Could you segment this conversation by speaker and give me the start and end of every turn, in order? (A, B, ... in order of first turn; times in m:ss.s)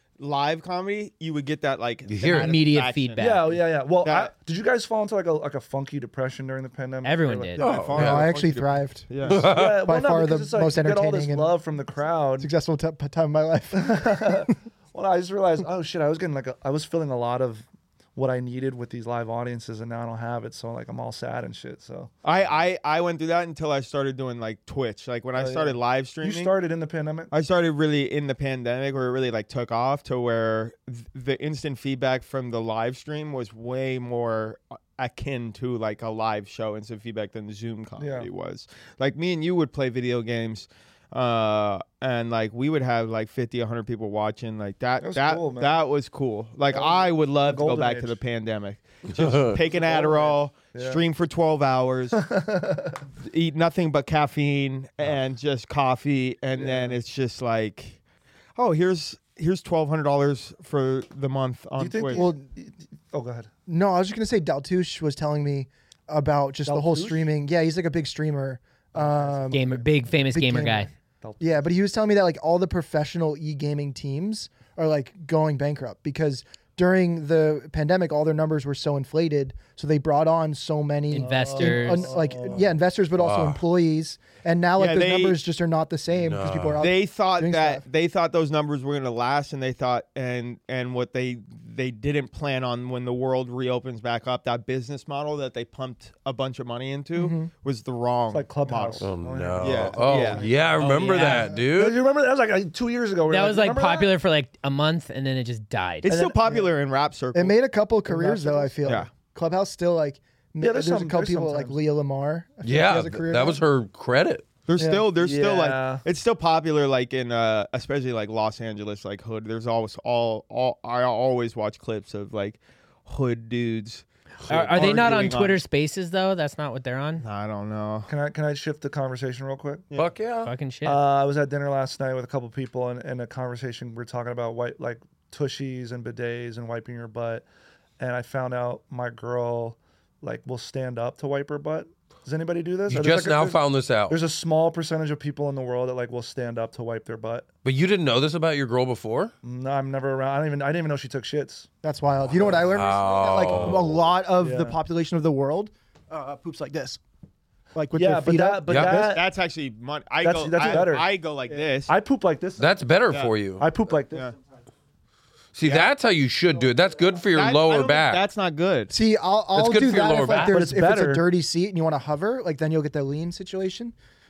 0:00.2-0:03.4 A
0:02.1-0:02.6 B
0:02.3-0:03.6 C
0:03.2-0:07.7 D
0:04.0-0:04.3 A
0:07.0-0:07.6 C
0:07.6-0:08.3 B
0:07.6-0:09.5 A
0:07.9-0:11.6 E
0:09.3-0:09.9 B
0:09.3-0:12.5 D
0:12.4-0:14.5 E
0:13.7-0:22.1 D
0:22.2-0:26.5 A
0:25.4-0:27.3 D
0:27.3-0:52.2 A
0:38.0-0:38.3 D
0:45.0-0:45.7 D
0:46.7-0:48.2 D
0:49.1-0:49.5 B
0:49.6-0:51.0 D
0:52.1-0:53.0 D
0:53.2-0:58.0 A
0:56.6-0:57.0 D
0:58.6-1:02.2 A
1:01.8-1:03.5 D
1:02.1-1:02.4 E
1:03.7-1:10.9 E
1:06.6-1:07.3 D
1:08.9-1:09.9 D
1:09.5-1:10.9 C
1:11.2-1:11.6 D
1:11.4-1:27.8 E
1:21.1-1:22.1 C
1:21.2-1:22.7 D
1:23.2-1:23.6 B
1:24.8-1:25.4 A
1:26.2-1:26.8 B
1:26.8-1:39.0 A
1:37.1-1:37.5 E
1:38.3-1:44.1 D
1:39.0-1:42.0 B
1:39.6-1:41.5 A
1:41.0-1:41.5 C
1:43.3-1:46.1 C
1:46.0-1:47.6 A
1:46.0-1:46.7 D
1:47.3-1:53.6 E
1:48.1-1:49.0 D
1:50.6-1:51.8 D
1:52.6-1:54.5 B
1:54.7-2:05.6 A
1:54.8-1:55.0 E
1:55.2-1:56.0 D
2:04.5-2:07.2 C
2:07.2-2:08.1 A
2:08.1-2:09.9 D
2:10.0-2:10.5 B
2:10.4-2:11.0 C
2:10.8-2:17.4 D
2:18.0-2:27.5 D
2:22.9-2:24.2 B
2:27.6-2:29.3 B
2:29.4-2:31.7 D
2:31.8-2:37.0 E
2:32.7-2:34.0 B
2:34.4-2:34.8 D
2:37.7-2:38.9 E
2:37.9-2:39.2 D
2:38.7-2:39.1 B
2:38.8-2:41.9 A
2:40.2-2:41.1 D
2:41.9-2:42.7 D
2:42.6-2:43.6 B
2:43.6-2:44.3 D
2:45.5-2:48.2 B
2:45.6-2:45.9 A
2:47.3-2:48.9 A
2:48.9-2:53.9 E
2:49.5-2:50.5 B
2:50.2-2:50.5 C
2:50.4-2:51.2 D